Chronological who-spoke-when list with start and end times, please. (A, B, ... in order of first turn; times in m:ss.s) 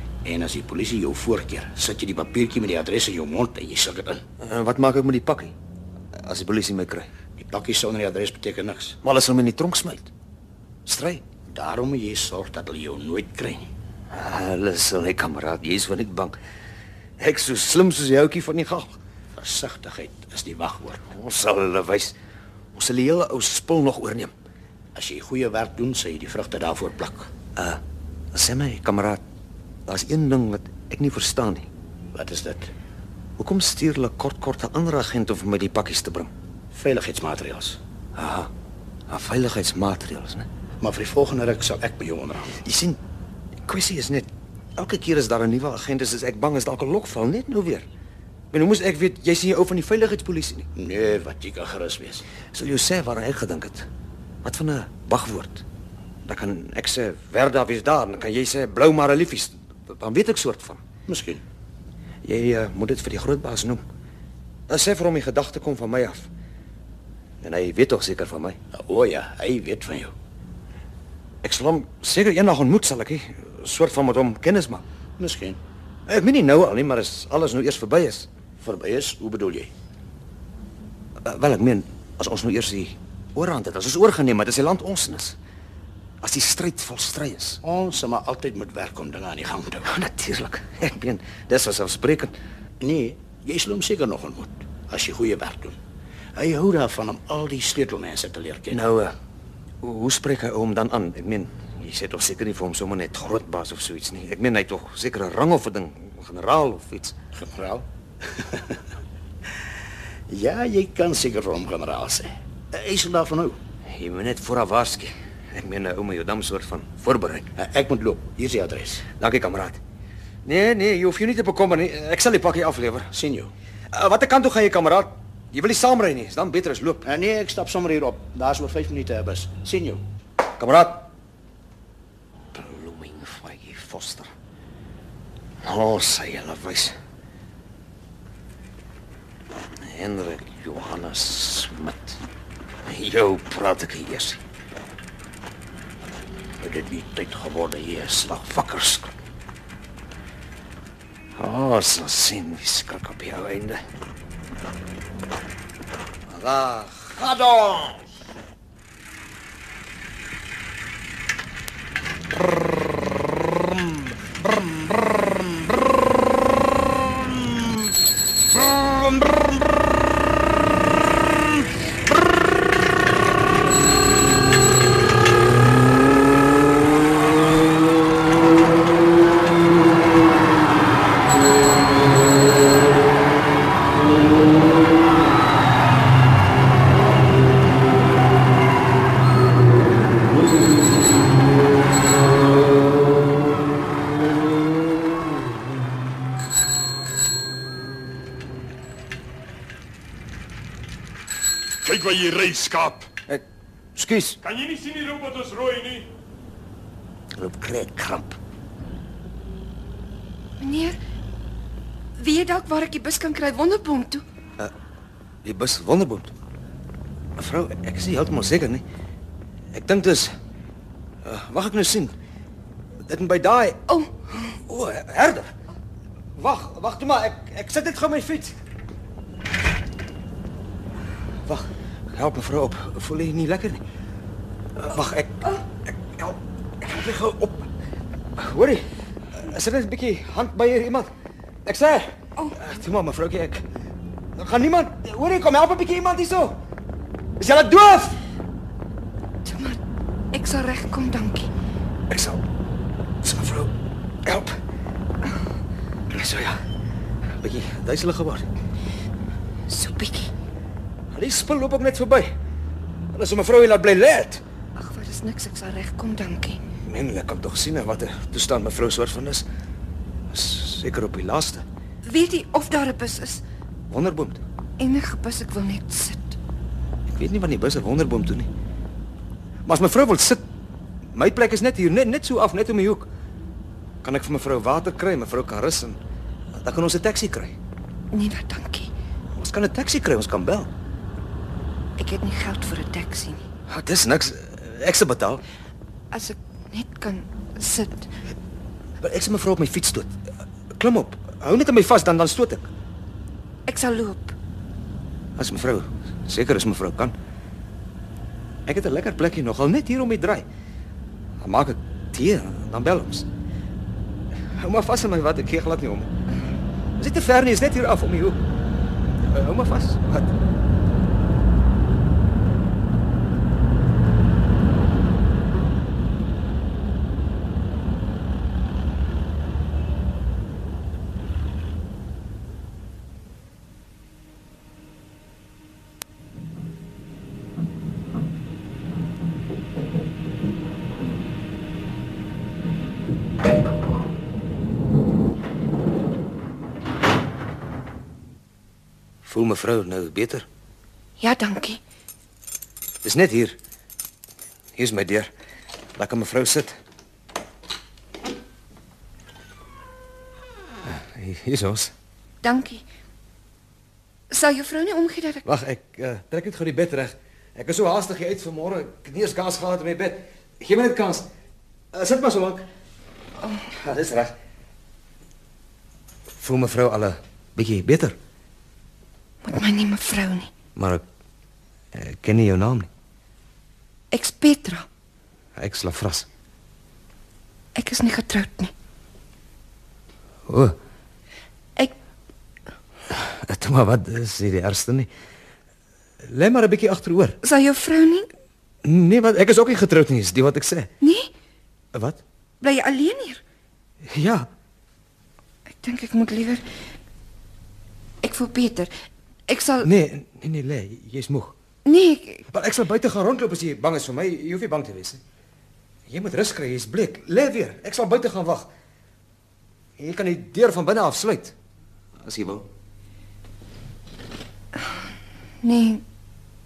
0:00.2-0:04.2 A
0:04.4-0:05.5 B
0:06.2-0:07.1 B
0:07.4-0:09.0 A
0:09.0-0:10.1 B
0:10.8-0:11.2 B
0:11.5-0:13.7 A
0:14.1-0:16.4 B
0:17.2-0:19.0 B
0:19.4-0:21.0 A
0:21.1-0:22.1 B
0:22.7-0:24.3 B
0:24.9-0:27.3 A
0:27.6-0:27.8 B
0:28.3-0:29.2 B
0:29.9-0:31.7 B
0:32.1-0:32.7 A
0:33.4-0:36.3 B
0:36.7-0:37.8 A
0:38.2-0:38.5 B
0:39.1-0:40.5 B
0:40.8-0:42.6 A
0:42.6-0:43.0 B
0:43.6-0:47.9 B
0:48.5-0:50.7 B
0:50.8-0:52.2 A
0:52.5-0:53.9 B
0:54.4-0:55.6 B
0:56.2-1:00.8 B
1:01.1-1:01.4 A
1:02.2-1:03.8 B
1:04.7-1:06.3 B
1:07.4-1:08.6 B
1:08.7-1:10.1 A
1:11.4-1:14.8 B
1:15.2-1:15.6 A
1:16.1-1:18.3 B
1:18.6-1:19.7 A
1:21.2-1:25.4 B
1:26.2-1:27.6 B
1:27.6-1:29.9 A
1:29.8-1:32.4 B
1:32.8-1:35.8 A
1:36.4-1:38.8 A
1:38.7-1:39.1 B
1:39.8-1:47.2 B
1:47.3-1:48.8 A
1:50.3-1:53.6 A
1:53.8-1:57.5 B
1:57.6-1:59.0 A
1:59.2-1:59.8 B
2:00.4-2:03.1 B
2:03.1-2:03.5 A
2:03.9-2:07.1 B
2:07.0-2:10.0 A
2:10.6-2:11.0 B
2:12.5-2:14.3 B
2:15.6-2:17.0 B
2:19.8-2:22.2 B
2:22.8-2:24.4 B
2:26.6-2:29.1 B
2:31.4-2:33.8 B
2:36.3-2:38.0 B
3:21.8-3:23.0 C
3:24.0-3:24.4 B
3:24.4-3:26.1 C
3:27.4-3:28.3 B
3:30.6-3:31.0 D
3:32.2-3:34.2 D
3:35.4-3:36.3 B
3:37.4-3:38.8 B
3:39.7-3:40.4 B
3:41.2-3:42.2 B
3:43.0-3:43.8 B
3:44.5-3:45.5 B
3:46.4-3:48.5 B
3:51.4-3:53.8 B
3:54.8-3:57.7 B
3:58.4-4:01.1 B
4:01.6-4:03.6 B
4:02.4-4:02.6 D
4:04.4-4:06.6 B
4:07.4-4:08.2 B
4:09.4-4:09.8 D
4:10.3-4:11.5 D
4:12.1-4:12.4 B
4:13.2-4:13.7 B
4:14.2-4:14.6 B
4:16.1-4:16.6 B
4:17.4-4:18.5 B
4:19.7-4:20.3 D
4:21.1-4:22.3 B
4:23.1-4:24.4 B
4:24.8-4:26.6 D
4:26.8-4:29.5 B
4:30.3-4:31.6 B
4:32.0-4:33.4 D
4:33.9-4:34.4 B
4:34.8-4:36.4 D
4:37.1-4:38.5 B
4:39.6-4:40.4 B
4:41.1-4:43.1 B
4:44.0-4:46.0 B
4:46.6-4:47.5 B
4:48.1-4:48.9 D
4:49.3-4:50.7 B
4:52.0-4:53.4 D
4:53.7-4:55.4 B
4:56.1-4:58.1 D
4:59.0-5:00.2 B
5:00.8-5:02.7 B
5:03.7-5:04.3 D
5:05.4-5:07.1 B
5:08.7-5:10.4 B
5:11.4-5:13.2 B
5:14.6-5:16.1 B
5:17.0-5:18.4 B
5:19.2-5:20.3 B
5:49.2-5:50.4 B
5:51.2-5:51.8 D
5:53.0-5:53.6 B
5:54.7-5:55.3 B
5:56.0-5:56.7 B
6:00.8-6:01.9 B
6:02.4-6:02.8 D
6:04.3-6:05.5 D
6:05.4-6:11.3 B
6:11.9-6:12.6 B
6:13.7-6:14.3 B
6:16.4-6:18.2 B
6:19.4-6:20.5 D
6:20.8-6:21.0 B
6:21.9-6:22.9 B
6:24.1-6:24.8 D
6:25.6-6:26.3 B
6:27.7-6:28.7 D
6:30.5-6:30.8 B
6:33.1-6:35.1 B
6:36.2-6:37.4 B
6:37.4-6:38.3 D
6:38.8-6:40.9 B
6:41.0-6:41.3 D
6:41.9-6:42.2 B
6:42.6-6:43.4 D
6:44.1-6:44.5 B
6:45.7-6:46.6 D
6:48.2-6:48.9 D
6:49.5-6:49.9 D
6:49.8-6:51.5 B
6:51.8-6:52.5 D
6:52.5-6:55.2 B
6:56.1-6:58.7 B
7:00.0-7:01.5 B
7:02.2-7:02.7 B
7:05.6-7:06.0 D